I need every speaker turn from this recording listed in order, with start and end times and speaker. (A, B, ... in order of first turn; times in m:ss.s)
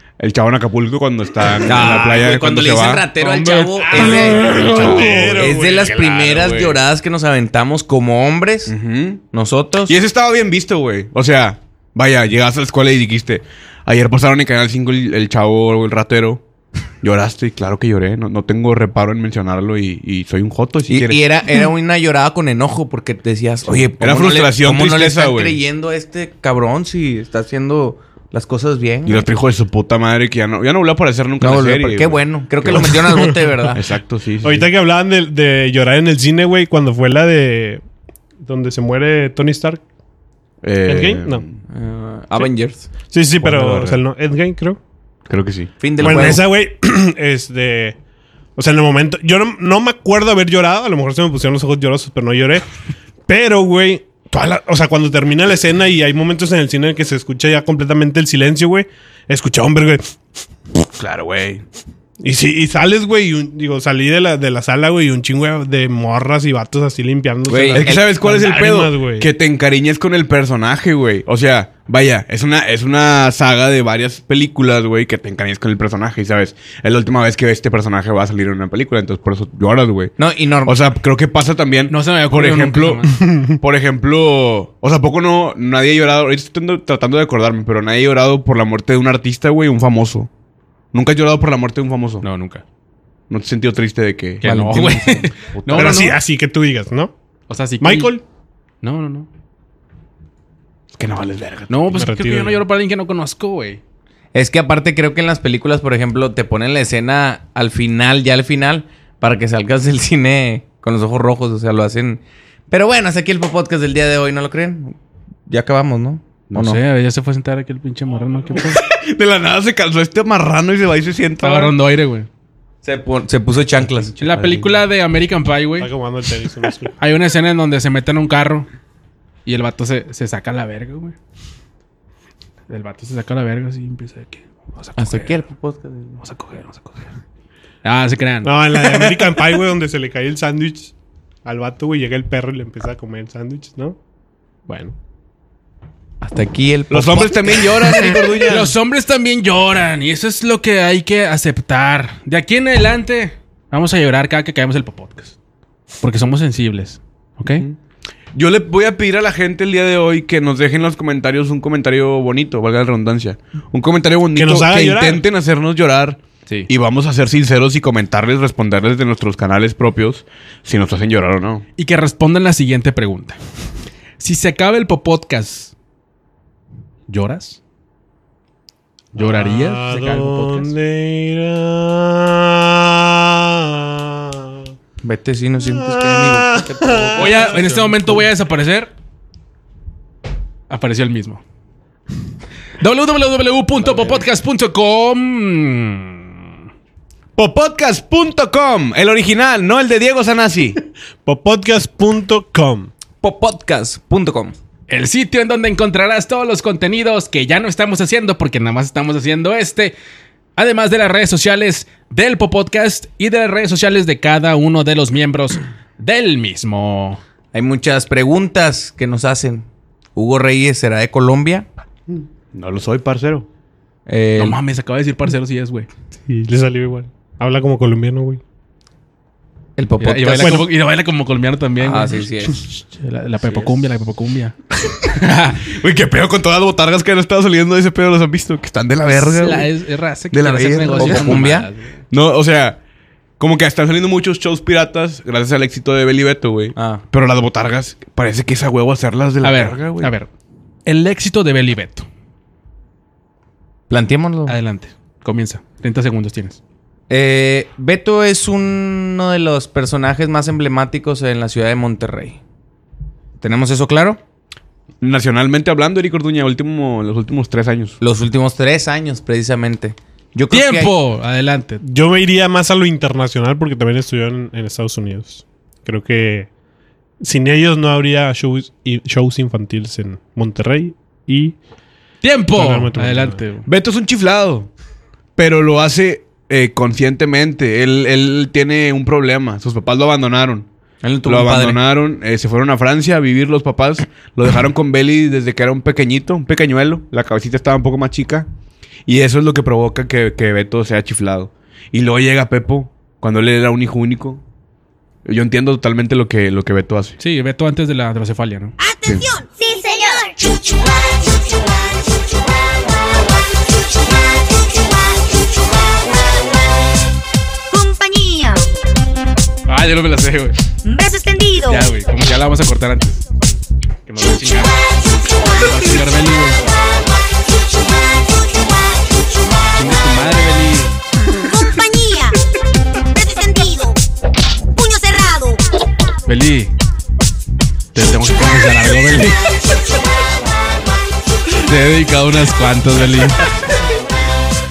0:00.2-0:03.1 A
0:01.6-0:08.7 B
0:03.5-0:05.9 C
0:03.9-0:06.8 A
0:08.7-0:09.2 A
0:09.3-0:10.0 B
0:09.8-0:16.4 A
0:17.0-0:21.2 A
0:20.9-0:29.3 B
0:23.7-0:25.6 A
0:29.0-0:33.0 A
0:31.4-0:33.8 B
0:32.8-0:33.3 C
0:33.7-0:34.7 A
0:34.4-0:37.8 C
0:38.4-0:39.8 C
0:40.6-0:41.6 A
0:40.8-0:41.4 C
0:41.7-0:42.9 B
0:43.1-0:44.8 C
0:43.4-0:44.0 A
0:45.3-0:46.4 A
0:45.8-0:46.5 B
0:46.0-0:48.0 C
0:48.6-0:52.6 C
0:53.3-1:00.2 C
1:01.0-1:01.6 A
1:02.2-1:09.3 C
1:07.5-1:08.0 B
1:07.7-1:30.3 A
1:20.2-1:20.8 B
1:21.9-1:23.1 D
1:23.2-1:23.5 C
1:30.9-1:32.2 A
1:32.2-1:32.6 D
1:33.3-1:36.1 A
1:34.4-1:36.2 D
1:34.4-1:35.2 B
1:35.7-1:37.1 C
1:37.5-1:38.1 D
1:37.8-1:38.2 C
1:38.8-1:39.3 D
1:40.9-1:42.0 A
1:41.7-1:43.8 D
1:41.9-1:42.6 C
1:44.3-1:55.0 B
1:55.5-1:56.8 B
1:56.5-1:58.8 D
1:58.7-2:01.7 A
2:01.4-2:02.3 D
2:02.8-2:04.6 B
2:04.2-2:05.9 D
2:05.8-2:06.9 C
2:07.0-2:08.7 D
2:09.4-2:11.2 D
2:12.7-2:15.4 D
2:15.0-2:16.2 B
2:16.2-2:17.2 D
2:17.8-2:19.0 D
2:18.4-2:20.9 C
2:21.4-2:24.0 C
2:24.6-2:24.9 C
2:26.2-2:28.1 B
2:26.9-2:28.7 A
2:28.5-2:35.3 D
2:36.0-2:37.7 D
2:38.3-2:51.6 A
2:44.4-2:45.2 C
2:51.8-2:53.4 D
2:54.2-2:55.7 D
2:57.1-2:57.6 D
2:59.1-3:00.7 D
2:59.1-3:04.6 C
3:05.0-3:08.2 B
3:05.7-3:07.6 C
3:07.1-3:08.9 D
3:10.7-3:11.4 D
3:12.8-3:16.4 D
3:13.8-3:14.2 B
3:17.4-3:20.8 A
3:21.2-3:22.9 C
3:23.2-3:24.6 B
3:24.9-3:29.9 D
3:30.6-3:37.2 D
3:37.5-3:41.7 B
3:42.5-3:43.5 A
3:44.0-3:44.6 B
3:44.4-3:45.9 D
3:46.3-3:48.4 C
3:49.8-3:50.6 B
3:50.0-3:55.7 D
3:50.4-3:50.7 C
3:51.8-3:52.6 B
3:55.5-3:59.7 A
3:59.1-4:01.9 D
4:00.3-4:01.5 A
4:00.8-4:01.7 B
4:02.1-4:02.8 A
4:03.4-4:10.1 A
4:06.7-4:07.0 B
4:09.4-4:10.3 D
4:10.8-4:12.0 D
4:13.9-4:14.6 B
4:14.5-4:16.6 D
4:17.1-4:22.4 B
4:23.4-4:24.2 B
4:25.0-4:28.0 A
4:28.0-4:30.9 B
4:30.5-4:31.8 D
4:31.8-4:36.5 C
4:37.2-4:41.6 C
4:42.2-4:43.7 D
4:42.5-4:43.4 C
4:43.6-4:44.7 A
4:45.4-4:50.7 A
4:51.0-4:51.8 B
4:51.2-4:58.5 A
4:59.0-5:04.4 A
5:05.2-5:07.2 A
5:07.2-5:08.7 D
5:08.8-5:12.6 E
5:14.5-5:15.5 E
5:17.7-5:18.7 E
5:19.7-5:20.6 D
5:20.8-5:21.9 E
5:21.6-5:23.2 D
5:24.1-5:24.7 D
5:25.4-5:26.7 D
5:25.6-5:25.9 E
5:29.8-5:30.9 D
5:31.3-5:32.4 E
5:33.1-5:34.0 E
5:34.7-5:35.6 E
5:36.2-5:36.7 D
5:37.9-5:39.4 D
5:41.6-5:43.5 D